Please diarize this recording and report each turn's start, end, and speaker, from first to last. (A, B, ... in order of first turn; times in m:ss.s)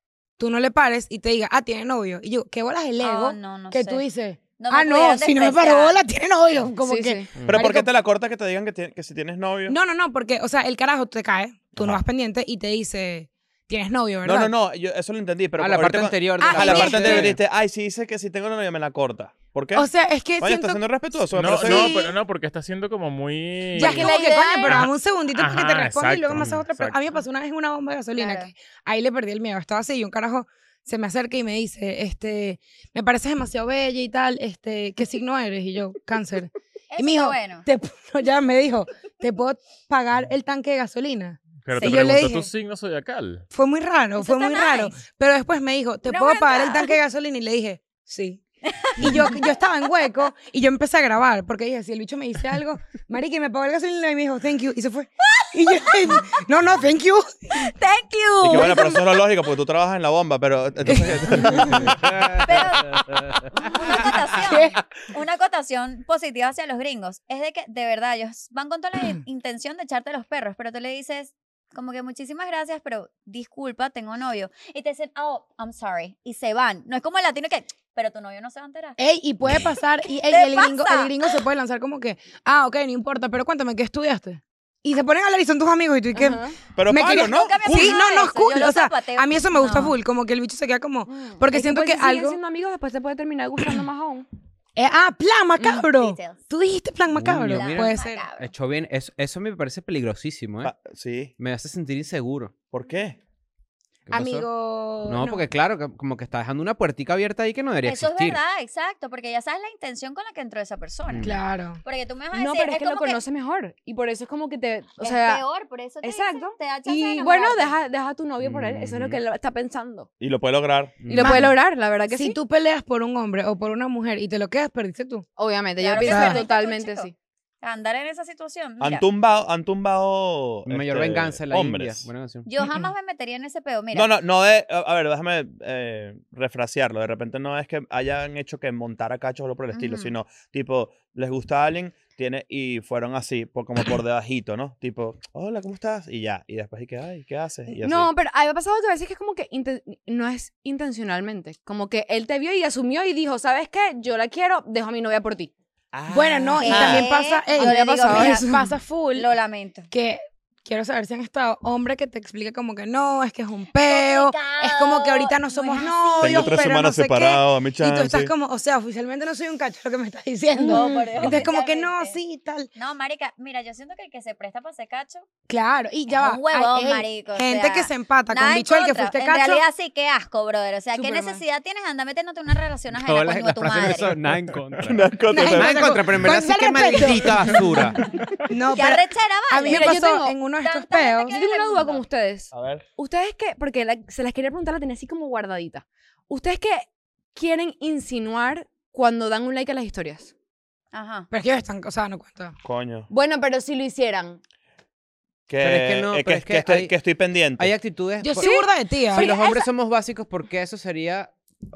0:00.4-0:07.9 A
0:03.0-0:06.0 B
0:06.8-0:07.4 C
0:07.4-0:07.6 D
0:07.4-0:09.8 E
0:09.7-0:14.5 A
0:11.8-0:12.0 E
0:14.2-0:22.0 E
0:15.6-0:17.4 D
0:16.4-0:17.4 A
0:19.8-0:20.8 A
0:21.4-0:24.1 F
0:21.5-0:22.2 A
0:23.8-0:42.5 A
0:23.8-0:24.8 B
0:24.7-0:27.0 F
0:26.4-0:26.6 D
0:28.2-0:28.5 B
0:36.9-0:37.7 B
0:41.6-0:43.4 F
0:41.7-0:42.0 B
0:43.5-0:48.4 A
0:44.2-0:45.0 B
0:46.1-0:47.0 B
0:48.7-0:49.3 B
0:49.0-0:57.7 A
0:55.2-0:56.2 B
0:57.5-0:59.0 B
0:58.4-1:02.4 E
1:00.9-1:02.5 D
1:02.4-1:03.0 B
1:03.5-1:19.0 B
1:04.3-1:04.8 A
1:19.0-1:32.4 A
1:20.2-1:21.4 B
1:26.1-1:26.6 C
1:26.7-1:28.0 E
1:27.1-1:30.0 B
1:31.1-1:34.3 C
1:34.8-1:38.2 A
1:35.6-1:35.9 C
1:36.0-1:36.4 B
1:37.1-1:40.7 D
1:37.5-1:38.5 B
1:40.6-1:41.3 E
1:41.4-1:42.5 D
1:42.7-1:43.2 E
1:44.1-1:44.5 D
1:44.1-1:45.4 A
1:45.0-1:48.4 D
1:47.8-1:53.2 B
1:51.1-1:51.4 D
1:51.2-1:51.8 A
1:52.3-1:55.4 C
1:55.0-1:57.8 B
1:56.0-2:00.1 C
1:58.4-1:59.2 D
2:00.2-2:01.1 E
2:01.0-2:01.5 D
2:01.1-2:02.4 C
2:01.2-2:01.5 A
2:02.1-2:05.3 A
2:05.4-2:07.1 C
2:05.8-2:09.1 B
2:06.0-2:06.4 A
2:08.8-2:12.1 E
2:10.7-2:12.5 D
2:12.5-2:14.1 B
2:12.6-2:12.9 A
2:13.9-2:28.1 E
2:19.7-2:20.1 B
2:27.7-2:35.5 C
2:35.9-2:37.1 E
2:36.1-2:39.3 A
2:36.6-2:38.5 B
2:37.6-2:38.7 C
2:39.1-2:39.9 B
2:39.9-2:52.7 A
2:43.7-2:46.7 B
2:46.2-2:48.3 E
2:50.6-2:52.2 B
2:52.7-2:55.3 B
2:55.5-2:59.6 A
2:56.1-3:04.2 B
3:01.0-3:01.4 C
3:02.9-3:08.0 D
3:04.8-3:06.1 E
3:05.3-3:07.9 A
3:08.5-3:11.4 A
3:08.7-3:10.0 B
3:09.7-3:10.4 C
3:10.6-3:12.0 B
3:11.3-3:20.3 C
3:12.5-3:12.9 E
3:20.9-3:21.3 B
3:21.3-3:22.6 A
3:22.6-3:23.1 E
3:23.1-3:24.4 C
3:25.5-3:27.8 E
3:25.6-3:27.0 D
3:27.6-3:28.6 D
3:28.2-3:29.3 A
3:28.4-3:29.7 C
3:29.1-3:31.3 D